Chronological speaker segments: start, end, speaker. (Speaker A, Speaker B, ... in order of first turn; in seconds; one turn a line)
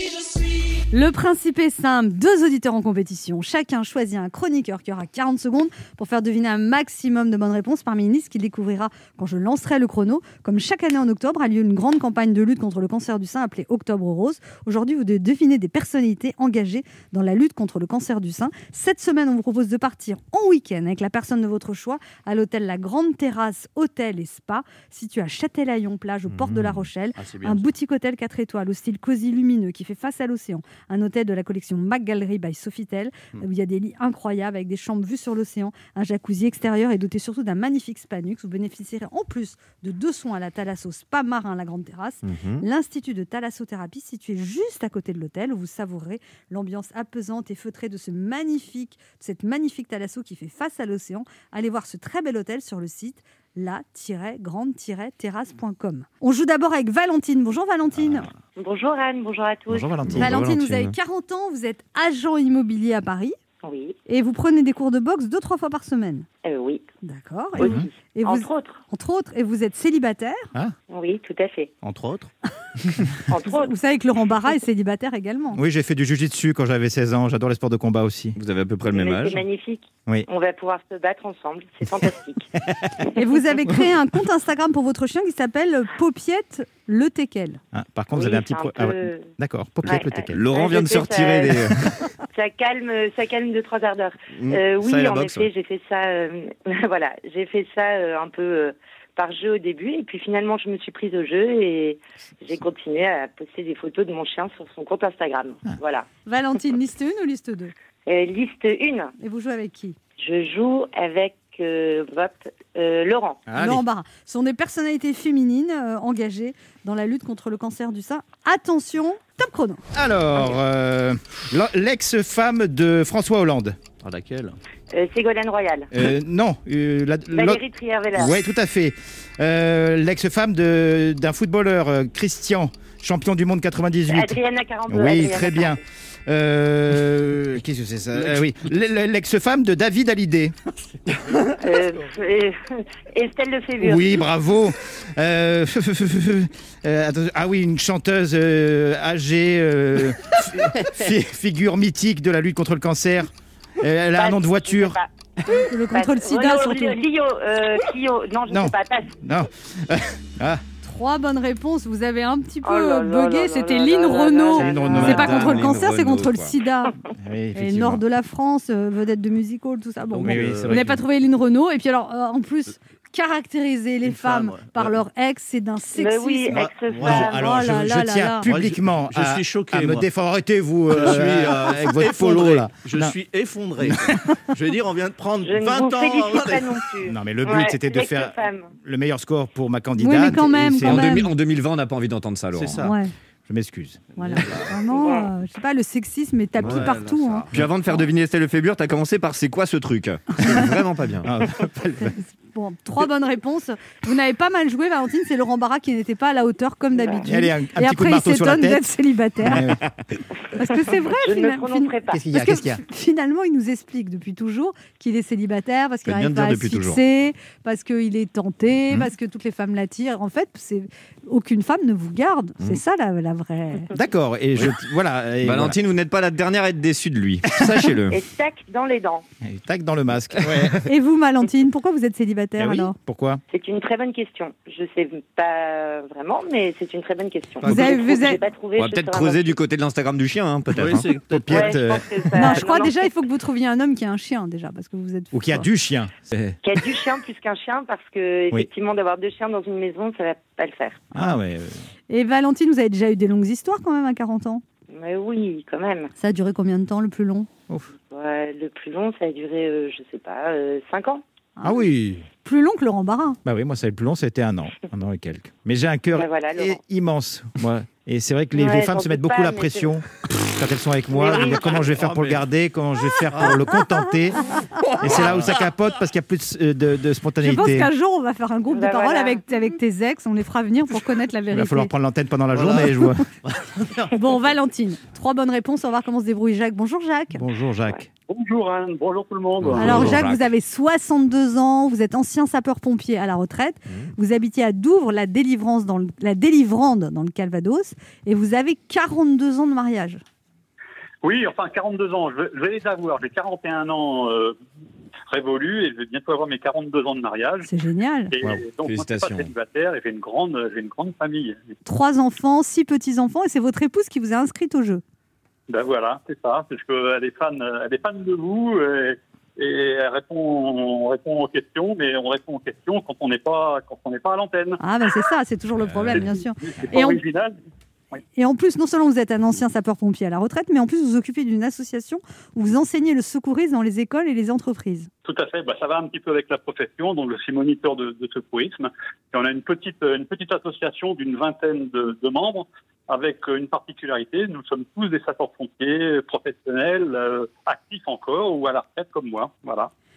Speaker A: 0.9-58.3
Speaker B: 26.3-26.9
Speaker C: 27.1-27.6
Speaker B: 42.2-42.6
Speaker D: 58.6-59.9
Speaker E: 59.7-60.6
Speaker B: 60.0-60.9
Speaker A: 60.2-63.4
Speaker D: 63.6-64.0
Speaker A: 64.1-66.3
Speaker D: 66.4-66.8
Speaker A: 67.0-70.5
Speaker E: 67.6-67.8
Speaker D: 67.6-68.8
Speaker D: 70.9-71.7
Speaker C: 71.8-72.2
Speaker D: 73.3-73.7
Speaker A: 73.5-75.6
Speaker E: 75.5-78.4
Speaker B: 78.3-79.4
Speaker D: 78.9-82.5
Speaker A: 83.2-87.6
Speaker E: 87.7-90.4
Speaker D: 88.1-89.3
Speaker D: 89.8-91.7
Speaker B: 90.3-91.9
Speaker D: 92.3-106.0
Speaker B: 94.3-95.5
Speaker A: 106.3-107.7
Speaker D: 108.0-109.1
Speaker A: 109.2-110.0
Speaker D: 110.2-113.4
Speaker E: 113.5-113.8
Speaker A: 113.6-119.8
Speaker E: 119.9-123.8
Speaker C: 124.0-124.5
Speaker D: 124.9-125.9
Speaker E: 125.9-127.6
Speaker D: 127.3-128.3
Speaker E: 128.1-134.4
Speaker D: 134.1-135.8
Speaker E: 134.9-140.5
Speaker C: 138.1-138.5
Speaker D: 141.6-144.2
Speaker E: 143.8-155.0
Speaker D: 154.1-155.1
Speaker A: 155.5-157.0
Speaker D: 155.9-159.1
Speaker E: 158.5-160.6
Speaker A: 160.8-166.9
Speaker D: 162.6-165.5
Speaker E: 164.6-165.4
Speaker B: 164.9-166.6
Speaker E: 167.2-168.0
Speaker A: 167.5-178.5
Speaker C: 170.1-170.8
Speaker E: 170.2-170.9
Speaker C: 174.0-174.9
Speaker D: 176.0-177.5
Speaker C: 176.9-177.3
Speaker E: 177.0-183.1
Speaker C: 178.4-180.1
Speaker C: 180.9-186.8
Speaker E: 183.8-184.3
Speaker D: 185.4-188.7
Speaker E: 187.1-191.2
Speaker A: 190.0-191.3
Speaker B: 190.8-192.8
Speaker C: 192.5-193.0
Speaker A: 192.8-193.1
Speaker E: 193.5-194.1
Speaker A: 194.2-197.5
Speaker C: 194.2-194.7
Speaker D: 194.9-195.3
Speaker C: 196.6-197.6
Speaker B: 197.5-201.3
Speaker E: 201.2-202.2
Speaker A: 202.0-209.7
Speaker D: 206.9-207.2
Speaker E: 207.2-208.8
Speaker E: 209.4-209.8
Speaker A: 210.5-223.9
Speaker D: 211.1-212.2
Speaker E: 212.1-212.8
Speaker B: 216.1-217.0
Speaker E: 223.9-225.8
Speaker B: 225.4-228.2
Speaker D: 228.1-229.2
Speaker E: 229.4-230.9
Speaker A: 230.8-232.9
Speaker E: 232.6-233.4
Speaker D: 233.5-239.6
Speaker A: 237.6-238.4
Speaker B: 237.6-237.9
Speaker B: 238.8-241.1
Speaker C: 240.7-241.9
Speaker E: 241.3-242.6
Speaker D: 241.5-242.9
Speaker A: 242.3-245.7
Speaker E: 245.3-246.6
Speaker D: 246.6-251.0
Speaker E: 251.1-251.8
Speaker A: 252.1-254.6
Speaker D: 254.9-256.1
Speaker A: 256.2-257.5
Speaker D: 258.1-261.2
Speaker A: 261.6-261.9
Speaker E: 261.6-262.2
Speaker A: 262.4-263.4
Speaker E: 263.4-277.9
Speaker D: 266.1-266.8
Speaker D: 268.5-269.9
Speaker D: 271.1-271.9
Speaker C: 271.6-272.4
Speaker C: 273.3-273.6
Speaker C: 275.1-275.5
Speaker A: 277.4-281.9
Speaker D: 278.7-279.4
Speaker E: 281.5-283.2
Speaker C: 282.5-284.1
Speaker A: 284.1-287.4
Speaker E: 287.3-288.1
Speaker F: 288.3-290.2
Speaker B: 289.7-290.2
Speaker A: 289.8-300.2
Speaker E: 289.8-290.4
Speaker F: 301.2-304.6
Speaker F: 305.3-307.7
Speaker A: 307.6-308.3
Speaker F: 308.3-311.7
Speaker B: 308.4-309.5
Speaker A: 311.9-315.0
Speaker F: 315.7-324.8
Speaker A: 324.8-327.2
Speaker F: 326.1-327.6
Speaker A: 328.4-335.1
Speaker F: 335.2-349.9